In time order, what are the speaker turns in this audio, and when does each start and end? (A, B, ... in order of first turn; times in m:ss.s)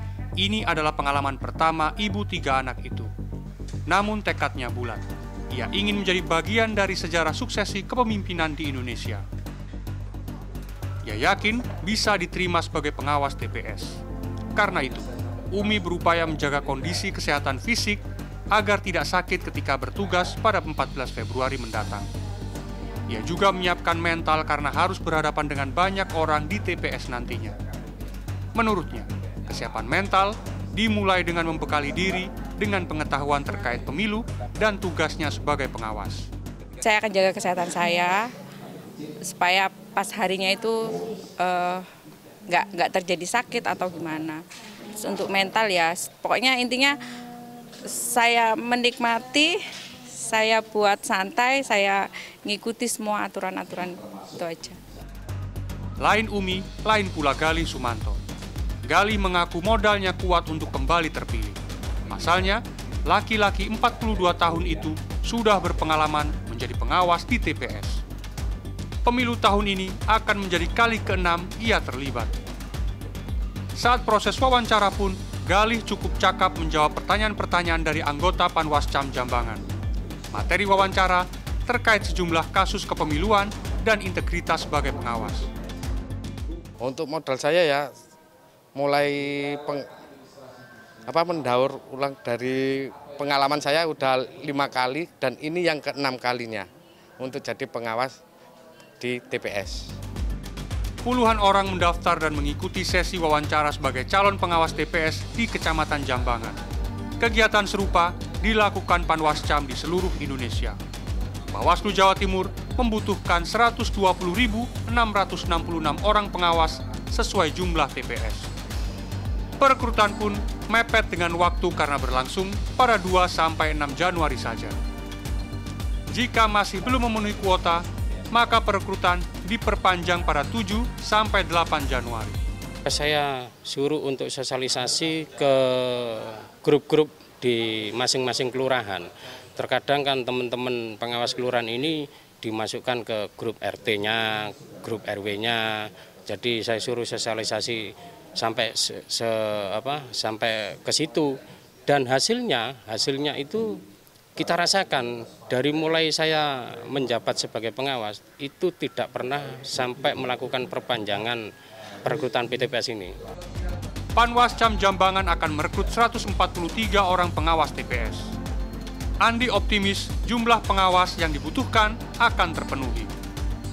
0:00.4-0:03.1 A
0:03.9-0:09.2 A
0:11.0-0:14.0 A
0:14.6-0:22.1 A
0:23.1-0:27.6 A
0:28.6-0:36.3 A
0:36.8-0:38.3 B
0:39.2-0:41.9 B
0:42.5-0:44.4 B
0:45.0-0:47.0 B
0:47.8-0:54.8 B
0:56.0-0:58.2 A
0:58.9-1:08.0 A
1:09.0-1:12.3 A
1:13.8-1:19.6 A
1:20.3-1:25.5 A
1:26.8-1:27.9 C
1:28.8-1:29.9 C
1:31.1-1:36.7 C
1:37.2-1:38.2 C
1:39.0-1:39.9 C
1:41.0-1:46.6 A
1:47.2-1:50.8 A
1:51.5-1:58.5 A
1:59.6-2:04.8 A
2:06.1-2:12.4 A
2:12.8-2:33.8 D
2:34.4-2:41.5 D
2:42.0-2:43.2 D
2:44.2-2:48.3 A
2:49.2-2:53.1 A